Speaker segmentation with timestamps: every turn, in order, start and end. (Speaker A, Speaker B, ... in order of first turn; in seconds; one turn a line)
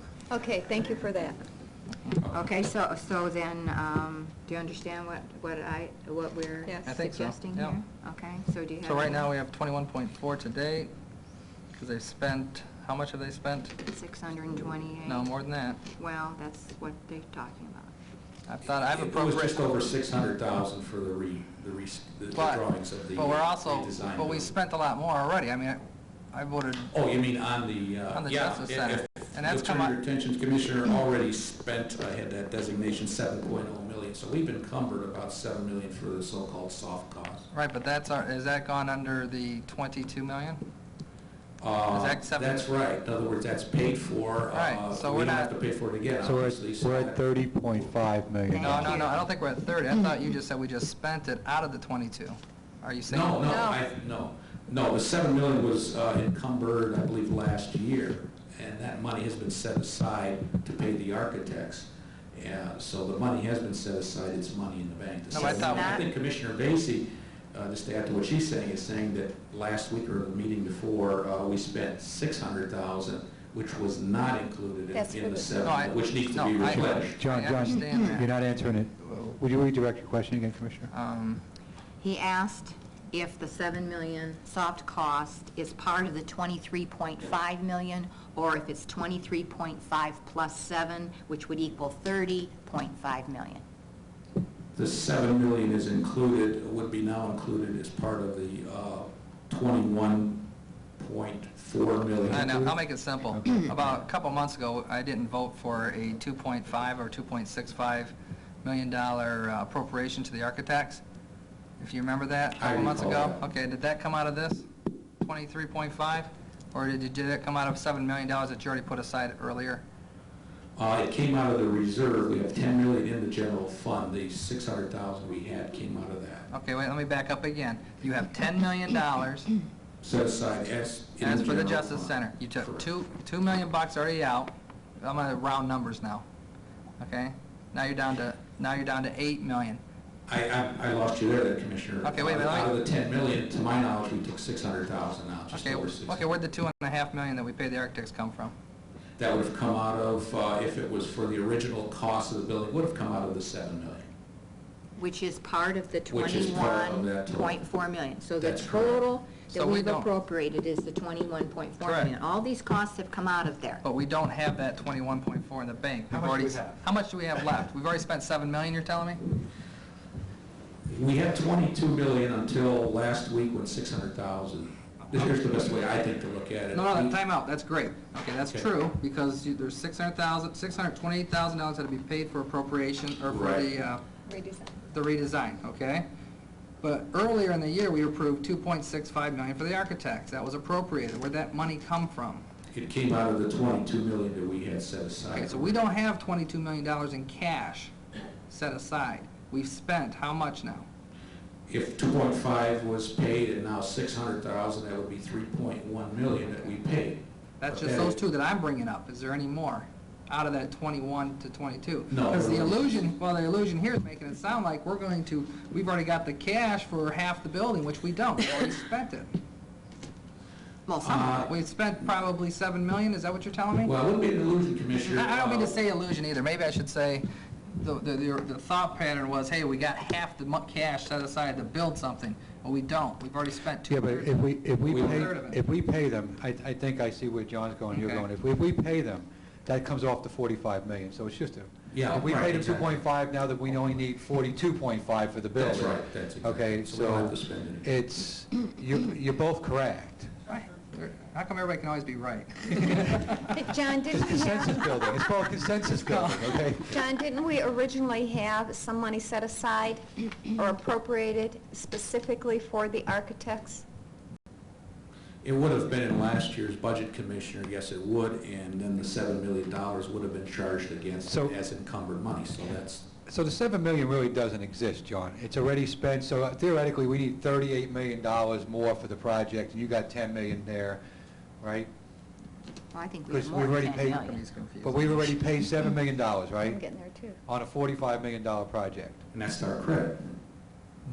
Speaker A: 0.3-1.4
Speaker B: 2.2-2.6
Speaker C: 2.3-9.3
Speaker A: 6.6-6.9
Speaker D: 6.8-7.8
Speaker D: 8.8-10.9
Speaker D: 11.8-13.7
Speaker C: 13.8-15.3
Speaker D: 15.0-15.8
Speaker C: 15.9-17.9
Speaker D: 18.5-19.6
Speaker B: 18.9-24.5
Speaker D: 22.3-26.9
Speaker B: 26.9-37.5
Speaker D: 28.1-29.9
Speaker D: 37.5-40.6
Speaker B: 41.6-47.2
Speaker D: 41.9-42.7
Speaker D: 44.5-45.5
Speaker E: 46.2-49.1
Speaker A: 48.5-49.1
Speaker D: 48.6-53.6
Speaker B: 53.1-77.2
Speaker A: 53.5-53.8
Speaker D: 65.3-66.0
Speaker C: 65.3-66.0
Speaker A: 74.9-75.5
Speaker D: 75.6-78.3
Speaker E: 76.7-80.9
Speaker D: 80.9-81.4
Speaker C: 82.0-93.6
Speaker B: 94.7-102.7
Speaker E: 102.2-102.7
Speaker D: 102.3-111.0
Speaker D: 111.8-114.7
Speaker B: 112.6-113.4
Speaker D: 115.2-119.8
Speaker B: 120.8-126.5
Speaker D: 126.5-129.5
Speaker B: 130.0-132.8
Speaker D: 131.2-136.2
Speaker D: 137.0-139.8
Speaker B: 140.3-146.3
Speaker D: 142.0-142.7
Speaker D: 145.5-148.5
Speaker B: 149.2-154.1
Speaker C: 155.0-163.8
Speaker B: 156.1-157.6
Speaker B: 158.4-159.1
Speaker D: 159.5-160.1
Speaker D: 161.8-162.1
Speaker D: 163.8-169.2
Speaker E: 166.1-166.8
Speaker B: 170.9-177.2
Speaker D: 176.7-184.0
Speaker B: 178.4-178.7
Speaker B: 183.3-183.7
Speaker A: 184.3-184.7
Speaker D: 184.9-186.1
Speaker D: 186.8-192.4
Speaker B: 192.7-195.7
Speaker D: 195.3-197.9
Speaker D: 198.5-200.9
Speaker B: 201.7-208.2
Speaker D: 207.6-219.3
Speaker B: 212.1-212.8
Speaker C: 220.8-221.5
Speaker B: 221.0-221.5
Speaker D: 221.4-223.9
Speaker B: 223.8-225.8
Speaker D: 225.0-235.6
Speaker E: 233.9-250.3
Speaker B: 234.8-235.3
Speaker D: 237.9-238.2
Speaker B: 241.9-243.1
Speaker B: 243.7-244.0
Speaker B: 245.5-247.9
Speaker D: 250.5-253.4
Speaker A: 253.5-254.9
Speaker E: 254.1-256.9
Speaker D: 256.1-256.6
Speaker A: 256.9-263.9
Speaker B: 265.4-273.0
Speaker E: 271.2-271.6
Speaker E: 273.2-281.0
Speaker E: 281.6-281.9
Speaker C: 282.9-284.4
Speaker E: 283.3-284.3
Speaker D: 284.2-285.3
Speaker E: 284.8-286.8
Speaker A: 286.6-287.4
Speaker E: 287.4-289.2
Speaker B: 289.3-290.2